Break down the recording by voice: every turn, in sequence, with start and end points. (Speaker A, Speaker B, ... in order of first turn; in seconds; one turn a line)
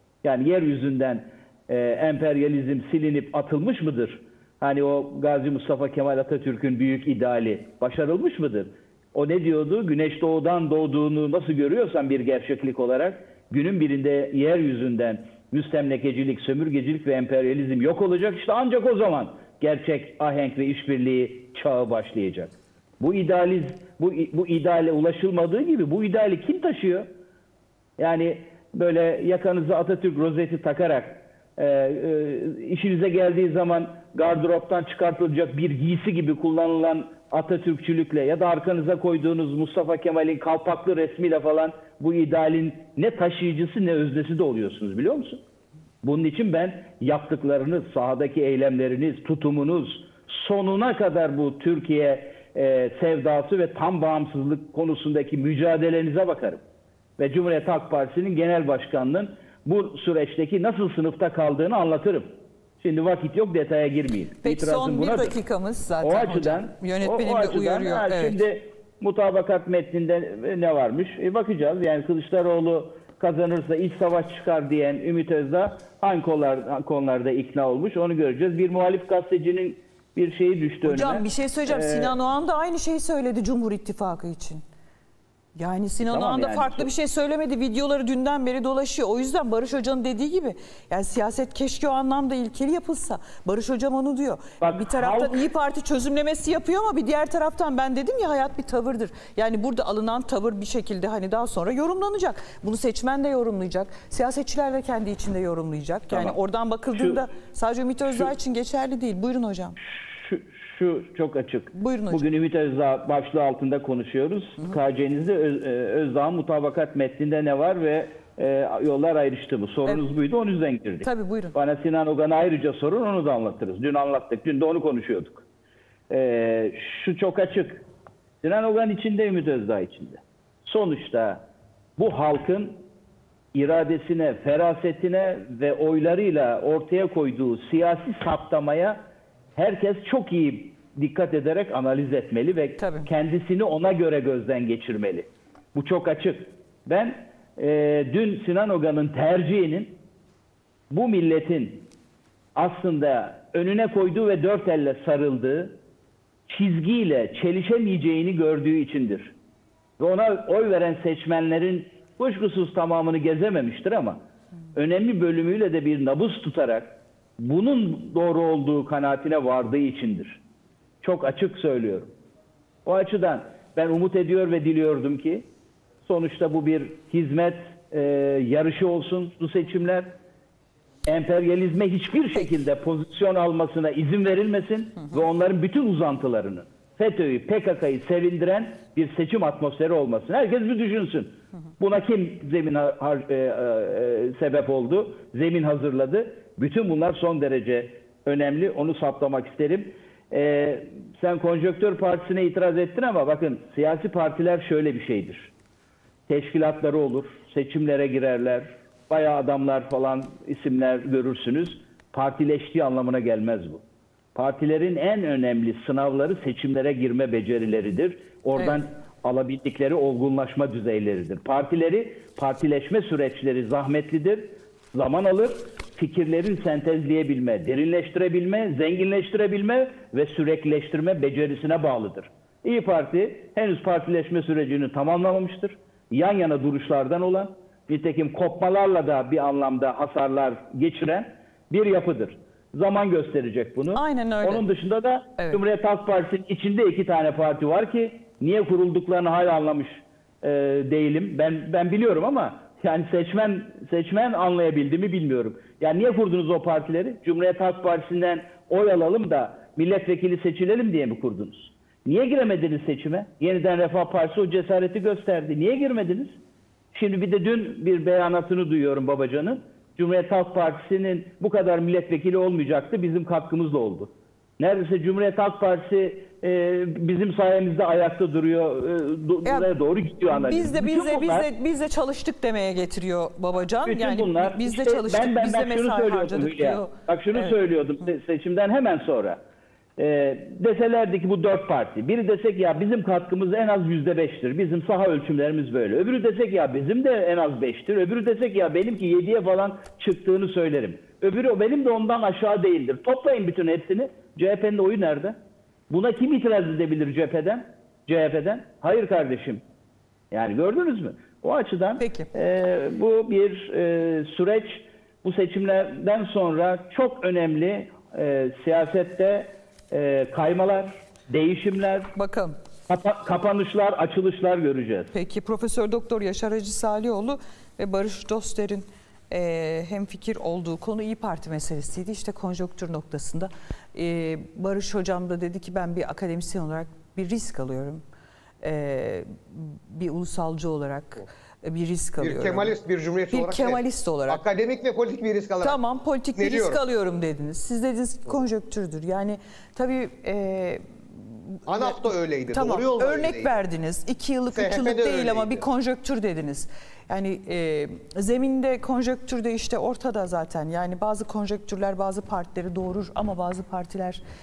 Speaker A: 0.2-27.1
Speaker A: 28.0-45.4
Speaker A: 46.0-56.6
Speaker A: 57.2-65.4
Speaker B: 64.4-68.4
Speaker A: 66.0-82.2
Speaker B: 80.8-84.6
Speaker B: 85.6-109.8
Speaker A: 86.0-86.9
Speaker A: 94.6-95.4
Speaker A: 106.1-106.4
Speaker A: 107.0-107.2
Speaker A: 109.8-125.5
Speaker B: 111.7-112.2
Speaker B: 121.0-121.5
Speaker A: 126.1-127.9
Speaker A: 128.4-131.4
Speaker A: 132.0-132.8
Speaker A: 133.5-139.0
Speaker A: 139.6-150.0
Speaker B: 142.8-143.1
Speaker A: 150.9-151.9
Speaker A: 152.6-155.8
Speaker A: 156.5-159.3
Speaker A: 160.0-164.2
Speaker A: 164.8-170.4
Speaker A: 171.0-172.1
Speaker A: 172.8-175.5
Speaker A: 176.1-180.1
Speaker A: 181.1-205.5
Speaker A: 206.3-213.8
Speaker A: 214.3-266.4
Speaker B: 243.9-244.7
Speaker A: 266.9-281.5
Speaker B: 279.4-279.7
Speaker B: 280.3-287.6
Speaker A: 283.8-289.4
Speaker A: 290.0-305.4
Speaker A: 305.9-309.6
Speaker A: 310.3-322.1
Speaker B: 312.0-312.3
Speaker B: 322.1-322.6
Speaker A: 322.9-325.1
Speaker B: 325.1-338.0
Speaker B: 338.6-342.8
Speaker C: 342.2-345.8
Speaker B: 343.3-344.4
Speaker B: 345.6-364.2
Speaker C: 346.4-346.8
Speaker C: 351.7-353.6
Speaker C: 354.5-355.6